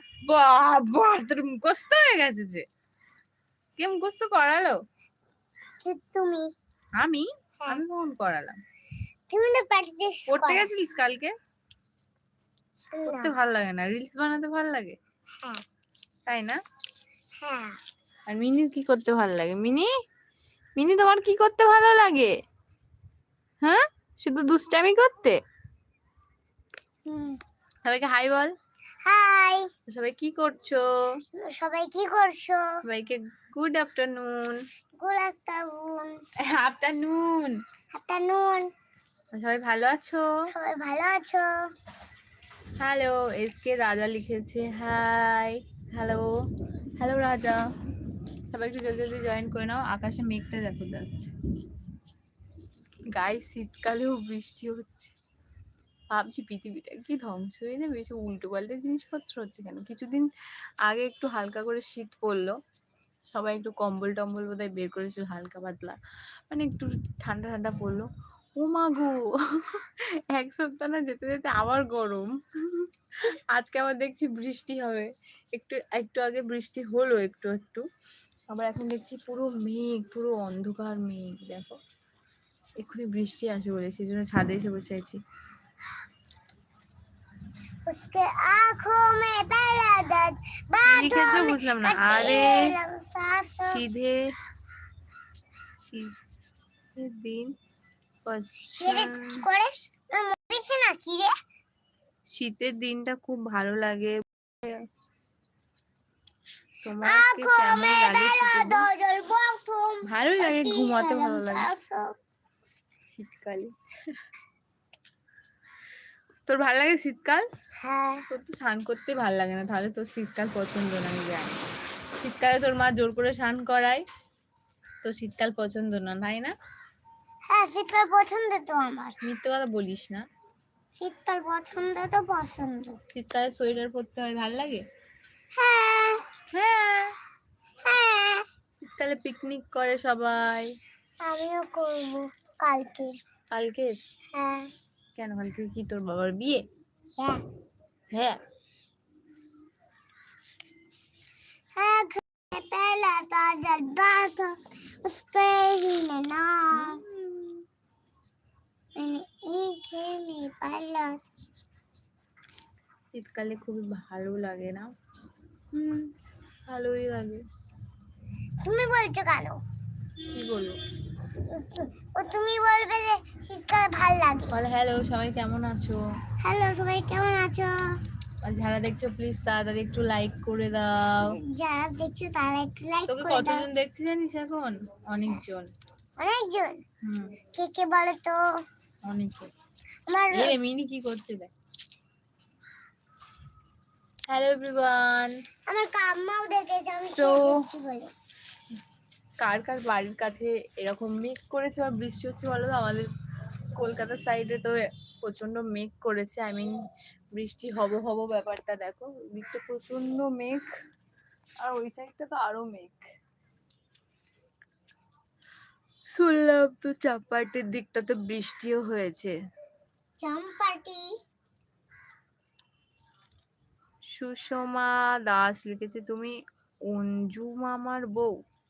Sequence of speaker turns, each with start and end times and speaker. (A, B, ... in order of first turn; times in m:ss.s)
0:00.3-0:02.6 A
0:03.8-0:04.8 A
0:05.7-0:06.5 B
0:07.0-0:08.6 A
0:09.3-0:10.7 B
0:10.3-0:11.3 A
0:12.9-0:13.3 B
0:13.0-0:15.0 A
0:16.3-0:16.6 A
0:17.4-0:17.8 B
0:18.3-0:19.9 A
0:20.8-0:22.4 A
0:23.6-0:25.4 A
0:27.0-0:27.4 B
0:27.8-0:28.5 A
0:29.0-0:29.7 B
0:29.9-0:31.2 A
0:31.3-0:32.7 B
0:32.8-0:34.6 A
0:35.0-0:36.1 B
0:36.4-0:37.6 A
0:37.9-0:38.7 B
0:39.3-0:40.3 A
0:40.5-0:41.5 B
0:42.8-0:46.3 A
0:47.0-0:47.6 A
0:48.5-0:51.3 A
0:53.1-0:55.1 A
0:56.1-1:00.3 A
1:00.8-1:02.6 A
1:03.3-1:06.0 A
1:06.5-1:17.9 A
1:18.5-1:21.8 A
1:22.8-1:25.2 A
1:27.9-1:33.8 B
1:30.8-1:32.7 A
1:33.7-1:34.2 A
1:35.8-1:36.1 A
1:36.9-1:37.5 A
1:38.2-1:39.4 A
1:38.8-1:41.3 B
1:42.3-1:44.8 A
1:46.8-1:48.9 A
1:47.0-1:52.1 B
1:50.0-1:51.7 A
1:53.1-1:53.7 A
1:56.5-1:57.4 A
1:57.8-1:58.2 B
1:58.3-2:01.6 A
2:02.2-2:04.0 A
2:05.0-2:06.5 A
2:07.5-2:09.2 B
2:09.2-2:10.2 A
2:11.0-2:13.0 B
2:13.1-2:14.8 A
2:15.6-2:16.2 B
2:16.5-2:17.1 A
2:17.8-2:18.4 B
2:18.7-2:20.7 A
2:21.2-2:23.2 B
2:23.5-2:24.0 A
2:24.3-2:24.7 B
2:25.2-2:26.6 A
2:28.1-2:28.4 A
2:31.8-2:37.0 B
2:36.7-2:37.6 A
2:39.0-2:41.2 B
2:43.1-2:44.9 A
2:45.7-2:46.1 A
2:46.7-2:47.4 A
2:48.6-2:49.6 B
2:50.3-2:50.8 A
2:51.4-2:54.5 B
2:54.5-2:56.0 A
2:56.4-2:57.7 B
2:58.4-3:01.4 A
3:01.3-3:03.7 B
3:03.1-3:05.7 A
3:06.2-3:06.8 B
3:07.0-3:07.4 A
3:07.5-3:08.4 B
3:09.0-3:09.5 A
3:10.1-3:10.5 B
3:10.3-3:11.5 A
3:14.3-3:15.4 A
3:15.7-3:18.1 B
3:17.0-3:17.6 A
3:19.4-3:23.1 A
3:23.8-3:26.7 A
3:27.3-3:30.7 A
3:31.6-3:33.0 A
3:36.1-3:39.3 A
3:40.2-3:41.0 B
3:44.2-3:46.4 A
3:46.9-3:48.3 A